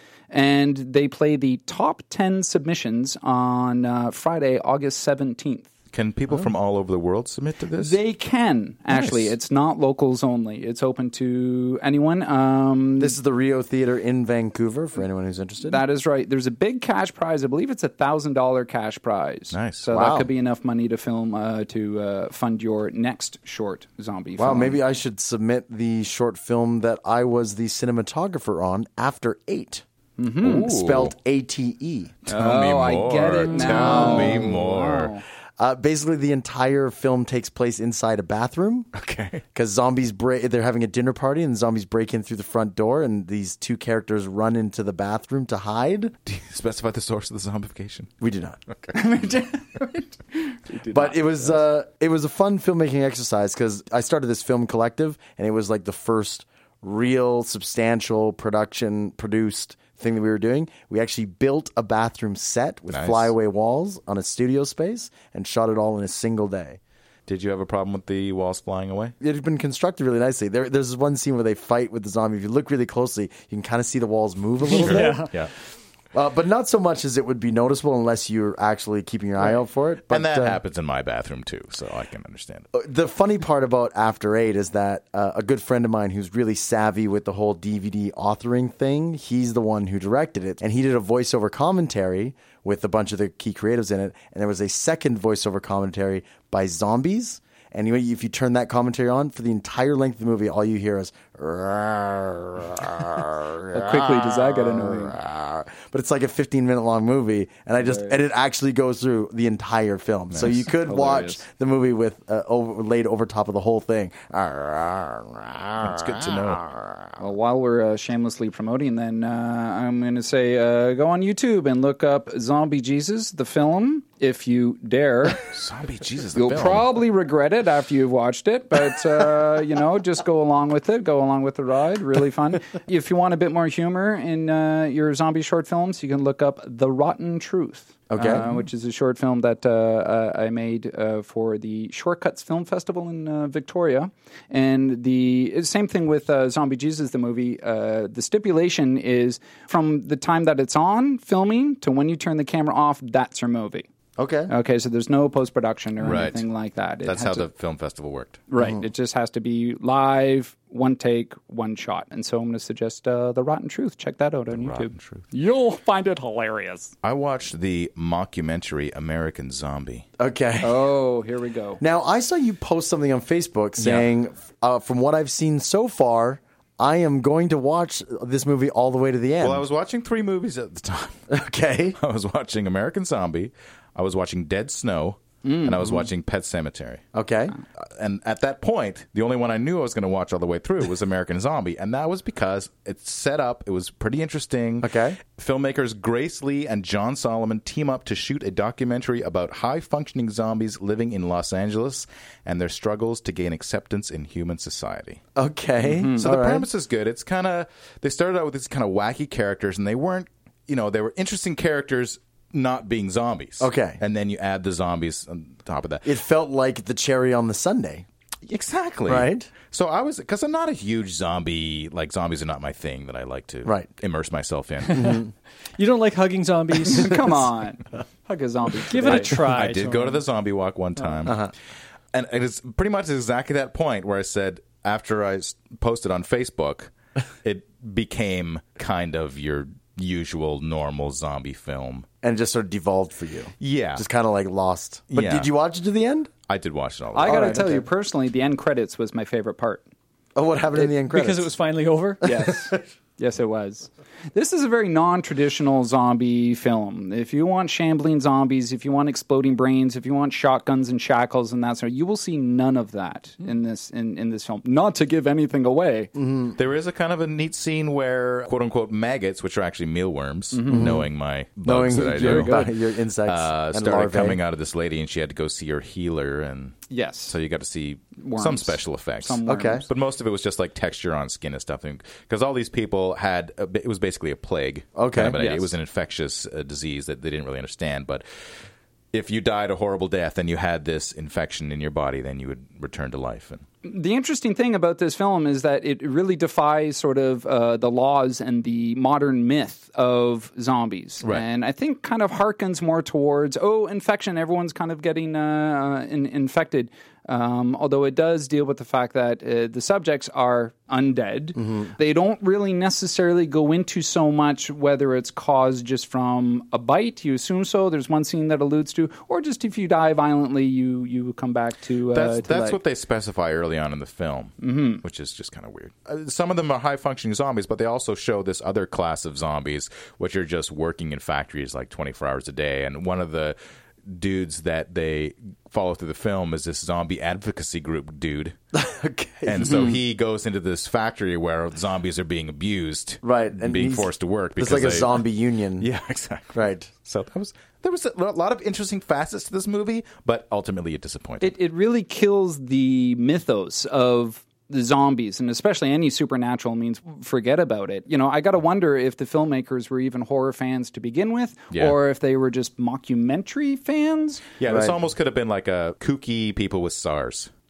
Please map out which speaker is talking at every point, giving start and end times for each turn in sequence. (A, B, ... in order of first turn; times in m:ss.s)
0:00.3-0:05.7 A
0:05.9-0:08.0 B
0:07.8-0:13.2 A
0:08.9-0:09.3 B
0:13.0-0:15.8 C
0:15.7-0:24.8 A
0:19.5-0:19.8 B
0:19.9-0:20.3 C
0:24.4-0:29.8 C
0:30.2-0:30.8 A
0:30.4-0:32.2 C
0:30.4-0:31.1 B
0:32.3-0:35.1 B
0:32.3-0:35.2 A
0:33.6-0:34.5 C
0:35.6-0:38.9 C
0:39.0-0:39.4 B
0:39.5-0:46.2 C
0:46.3-0:48.1 B
0:48.2-0:48.6 C
0:48.9-0:51.6 A
0:50.9-1:06.8 C
1:02.9-1:03.3 B
1:07.3-1:09.2 B
1:09.2-1:15.3 C
1:14.7-1:15.5 B
1:14.7-1:15.3 D
1:16.1-1:20.6 C
1:20.1-1:22.7 B
1:22.7-1:57.1 C
1:43.7-1:45.2 A
1:47.8-1:48.2 A
1:50.3-1:50.6 B
1:50.8-1:51.4 A
1:55.8-1:56.6 B
1:57.2-2:05.4 A
2:05.5-2:06.9 B
2:06.4-2:33.9 A
2:18.1-2:18.5 C
2:34.2-2:34.5 C
2:34.5-2:37.5 A
2:36.0-2:36.5 B
2:37.0-2:38.4 B
2:38.5-2:46.9 A
2:38.6-2:38.9 C
2:44.5-2:45.2 B
2:47.0-2:50.1 B
2:50.2-2:50.8 C
2:50.6-2:51.8 A
2:51.8-2:59.6 C
2:53.8-2:54.1 B
2:59.4-3:01.2 B
3:01.3-3:02.0 C
3:02.0-3:07.1 B
3:05.4-3:06.0 A
3:07.2-3:07.6 C
3:08.0-3:25.2 B
3:14.8-3:15.2 C
3:25.4-3:26.7 C
3:25.8-3:26.2 A
3:26.2-3:36.1 B
3:33.6-3:34.0 C
3:36.0-3:38.1 C
3:38.5-3:45.2 B
3:39.1-3:39.5 C
3:44.9-3:45.3 C
3:45.8-3:47.2 D
3:46.8-3:49.4 A
3:48.9-3:50.2 D
3:49.0-3:51.5 B
3:51.3-3:51.5 C
3:52.1-3:56.9 B
3:57.4-4:02.1 B
4:02.2-4:06.3 C
4:03.6-4:04.0 B
4:05.1-4:05.5 B
4:06.5-4:07.7 B
4:07.1-4:09.8 A
4:07.2-4:07.9 C
4:10.4-4:11.5 C
4:11.1-4:12.2 D
4:12.2-4:12.8 C
4:12.2-4:26.1 A
4:26.2-4:26.6 C
4:26.6-4:32.7 B
4:30.5-4:31.0 A
4:30.7-4:31.1 C
4:31.6-4:34.4 C
4:33.2-4:48.2 B
4:36.9-4:37.4 A
4:38.2-4:39.9 A
4:39.5-4:39.8 C
4:45.0-4:45.4 C
4:45.3-4:45.7 A
4:49.1-4:53.6 B
4:53.8-5:22.8 A
5:11.6-5:11.9 C
5:22.1-5:38.6 B
5:24.6-5:25.0 A
5:38.7-5:39.9 C
5:39.5-5:45.2 B
5:39.6-5:40.0 A
5:43.2-5:45.9 C
5:45.8-5:51.6 B
5:46.5-5:46.9 C
5:51.4-6:04.5 A
6:04.6-6:07.5 B
6:04.7-6:05.0 C